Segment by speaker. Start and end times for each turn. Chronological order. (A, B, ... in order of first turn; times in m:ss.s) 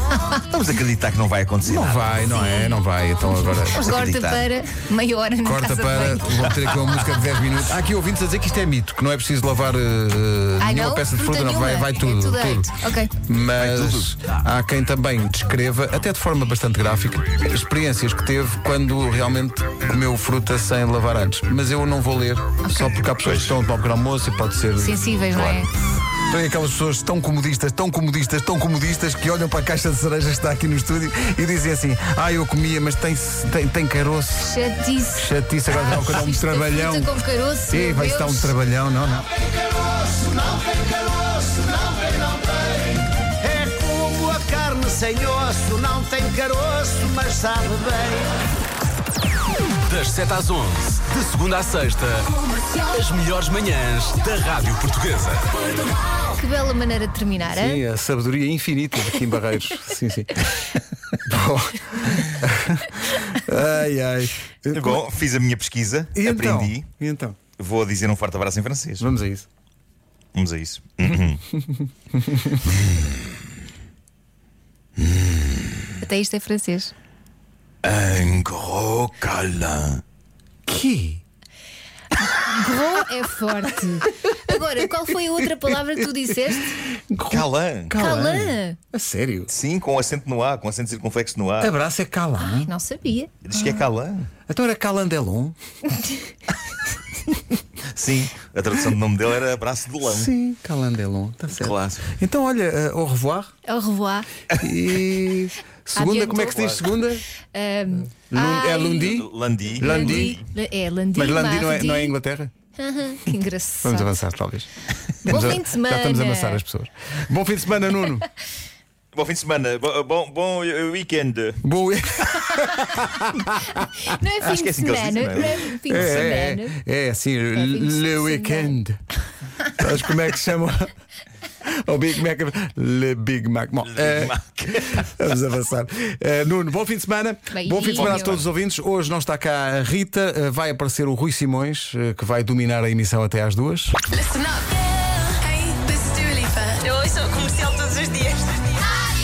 0:00.5-0:02.2 A
0:01.6-0:03.9 B
0:02.2-0:02.8 C
0:03.7-0:06.4 C
0:03.8-0:04.5 A
0:05.4-0:12.7 B
0:10.6-0:13.1 C
0:13.3-0:25.0 B
0:13.6-0:14.2 A
0:23.2-0:23.5 A
0:24.8-0:25.7 C
0:25.3-0:25.6 A
0:26.3-0:34.6 B
0:34.5-0:38.6 C
0:35.2-0:37.2 B
0:37.7-0:39.3 B
0:39.5-0:48.3 D
0:49.9-0:52.3 E
0:52.9-0:55.4 E
0:56.4-0:57.8 C
0:57.5-1:00.3 B
1:01.3-1:05.0 B
1:04.7-1:06.9 A
1:06.2-1:07.4 B
1:07.6-1:09.0 A
1:09.0-1:09.5 B
1:10.4-1:11.4 A
1:11.6-1:12.6 B
1:15.0-1:15.6 A
1:16.0-1:16.9 C
1:17.8-1:20.0 A
1:20.7-1:21.2 B
1:22.4-1:26.8 C
1:27.1-1:29.5 B
1:27.3-1:27.9 A
1:28.0-1:28.8 C
1:29.5-1:31.7 A
1:31.6-1:32.7 B
1:32.4-1:33.5 C
1:33.4-1:34.3 A
1:34.5-1:35.6 B
1:37.9-1:40.3 A
1:40.0-1:43.5 B
1:41.6-1:42.1 A
1:43.7-1:44.3 C
1:44.6-1:47.2 B
1:45.9-1:46.7 C
1:46.6-1:46.8 A
1:47.5-1:49.2 C
1:48.3-1:50.4 B
1:49.1-1:50.3 A
1:49.8-1:52.2 C
1:51.2-1:52.5 B
1:52.8-1:54.1 C
1:53.8-1:54.7 B
1:55.2-1:56.6 C
1:55.3-1:58.2 B
1:59.1-2:01.6 A
2:01.6-2:03.9 B
2:04.1-2:06.8 C
2:04.5-2:06.3 A
2:05.9-2:09.0 B
2:07.5-2:08.8 C
2:09.8-2:10.9 B
2:11.6-2:24.0 B
2:13.9-2:15.0 A
2:17.5-2:18.4 C
2:18.0-2:18.4 A